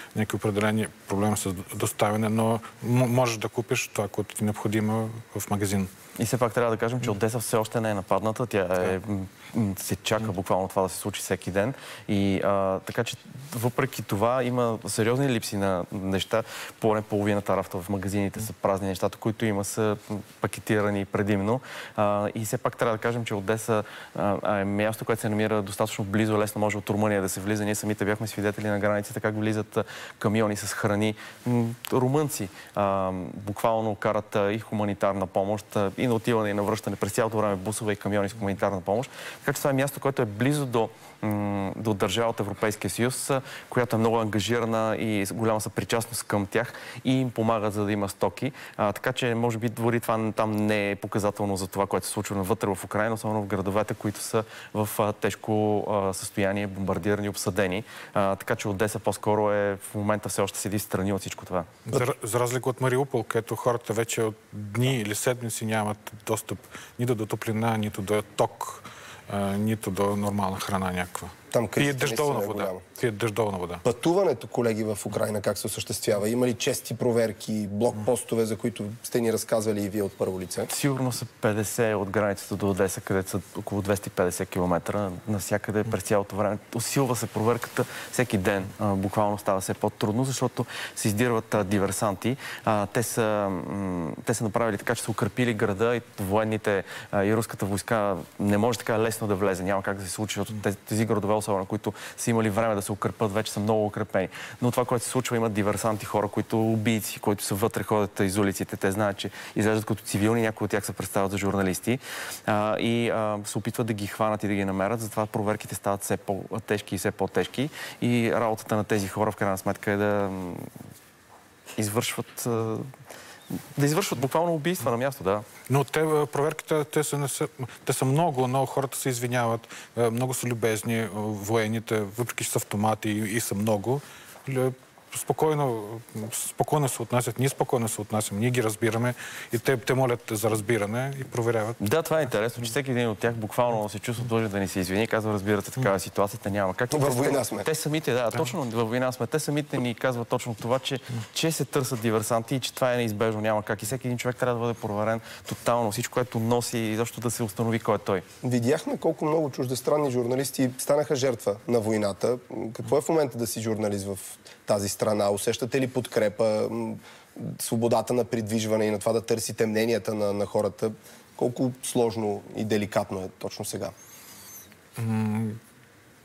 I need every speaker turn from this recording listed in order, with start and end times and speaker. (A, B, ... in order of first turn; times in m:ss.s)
0:00.1-0:05.9 A
0:06.2-1:01.7 B
1:01.9-1:13.8 A
1:11.5-1:12.8 C
1:13.8-1:20.7 C
1:20.7-2:00.7 B
2:01.8-2:02.9 B
2:03.7-2:05.5 B
2:05.7-2:21.8 A
2:21.8-2:38.2 B
2:26.9-2:27.7 C
2:38.4-2:53.9 C
2:55.0-2:55.6 A